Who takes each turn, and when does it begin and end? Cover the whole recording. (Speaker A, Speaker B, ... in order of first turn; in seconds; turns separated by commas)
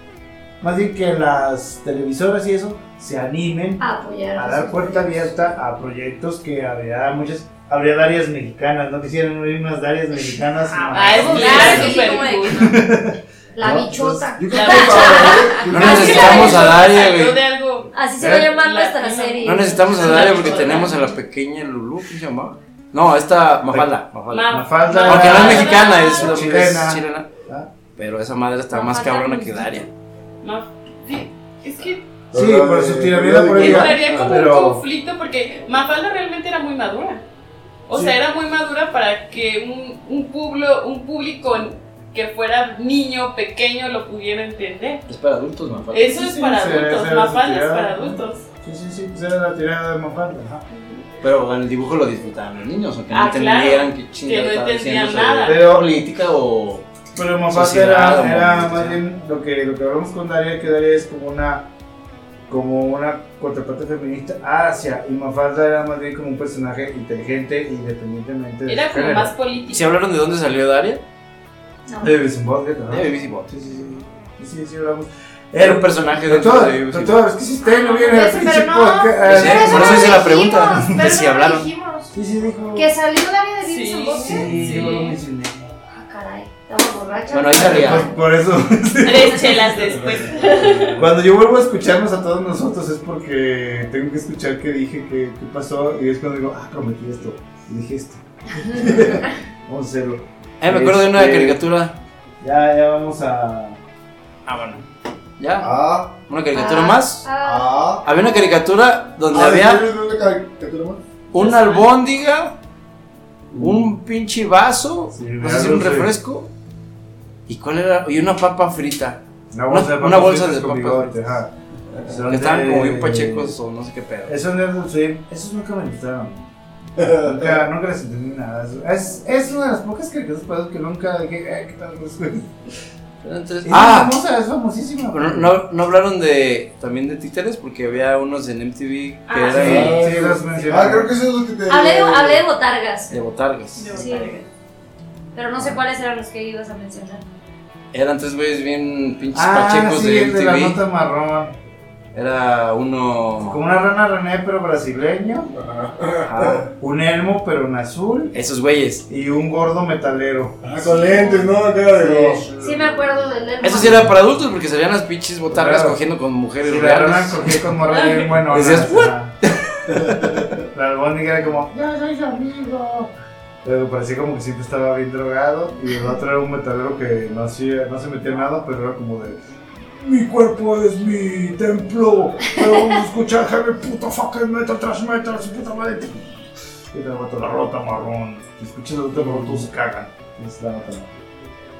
Speaker A: 0.6-14.3, Speaker B: 3.8-5.3, Speaker B: 10.6-12.8, Speaker C: 10.9-12.7, Speaker D: 11.3-11.9, Speaker B: 13.6-16.8, Speaker E: 14.3-16.8, Speaker C: 14.5-17.9, Speaker D: 15.7-17.4, Speaker A: 15.7-16.3, Speaker B: 17.9-21.0, Speaker A: 18.2-18.5, Speaker C: 18.5-21.1, Speaker D: 19.4-27.3, Speaker A: 23.7-27.7, Speaker C: 24.3-26.6, Speaker D: 27.9-29.9, Speaker B: 28.7-29.7, Speaker C: 30.4-32.0, Speaker E: 32.3-34.4, Speaker A: 32.3-34.8, Speaker C: 33.6-37.2, Speaker D: 33.6-33.9, Speaker C: 37.9-45.0, Speaker D: 45.1-46.1, Speaker C: 45.9-48.4, Speaker A: 46.0-50.6, Speaker C: 50.7-51.0, Speaker D: 51.2-56.9, Speaker C: 53.1-55.7, Speaker A: 55.4-55.9, Speaker A: 57.1-61.7, Speaker D: 57.5-59.0, Speaker A: 62.5-69.3, Speaker C: 68.7-69.8, Speaker D: 69.7-71.0, Speaker A: 72.0-81.0, Speaker D: 72.9-74.0, Speaker D: 75.5-77.2, Speaker B: 77.6-82.1, Speaker D: 79.2-81.7, Speaker A: 82.1-82.9, Speaker B: 82.7-85.1, Speaker C: 83.6-85.1, Speaker A: 84.2-85.7, Speaker B: 85.9-88.2, Speaker D: 87.3-88.0, Speaker A: 87.5-89.9, Speaker C: 89.0-91.0, Speaker E: 90.0-91.0, Speaker A: 90.9-101.6, Speaker D: 100.6-102.0, Speaker A: 102.4-103.8, Speaker D: 104.5-104.8, Speaker D: 105.4-107.3, Speaker E: 105.6-106.2, Speaker B: 106.5-108.6, Speaker E: 107.4-108.0, Speaker D: 108.0-109.8, Speaker E: 109.2-111.0, Speaker D: 111.3-112.5, Speaker D: 113.6-116.5, Speaker A: 115.1-116.1, Speaker D: 117.5-121.2, Speaker A: 119.5-121.5, Speaker A: 122.0-123.5, Speaker D: 122.1-124.3, Speaker A: 124.3-132.5, Speaker E: 127.0-127.5, Speaker D: 133.2-134.2, Speaker A: 133.6-135.6, Speaker D: 135.1-140.0, Speaker C: 139.3-139.6, Speaker E: 139.5-142.4, Speaker A: 139.5-141.1, Speaker B: 141.7-143.2, Speaker D: 143.1-143.9, Speaker C: 143.8-144.5, Speaker B: 143.9-144.4, Speaker B: 145.3-147.2, Speaker A: 145.5-145.8, Speaker D: 147.9-150.8, Speaker A: 149.3-151.5, Speaker D: 152.1-153.6, Speaker A: 153.5-155.5, Speaker E: 155.5-156.7, Speaker D: 156.2-156.7, Speaker A: 156.8-158.3, Speaker D: 158.3-159.0, Speaker A: 159.1-160.7, Speaker E: 160.6-163.3, Speaker B: 160.9-161.5, Speaker A: 161.9-162.4, Speaker B: 162.5-164.1, Speaker D: 163.6-167.7, Speaker A: 165.5-166.0, Speaker A: 166.6-169.3, Speaker C: 167.9-168.2, Speaker D: 168.5-170.4, Speaker E: 169.9-170.6, Speaker A: 170.7-173.1, Speaker A: 173.6-179.4, Speaker A: 179.9-191.2, Speaker E: 189.2-189.6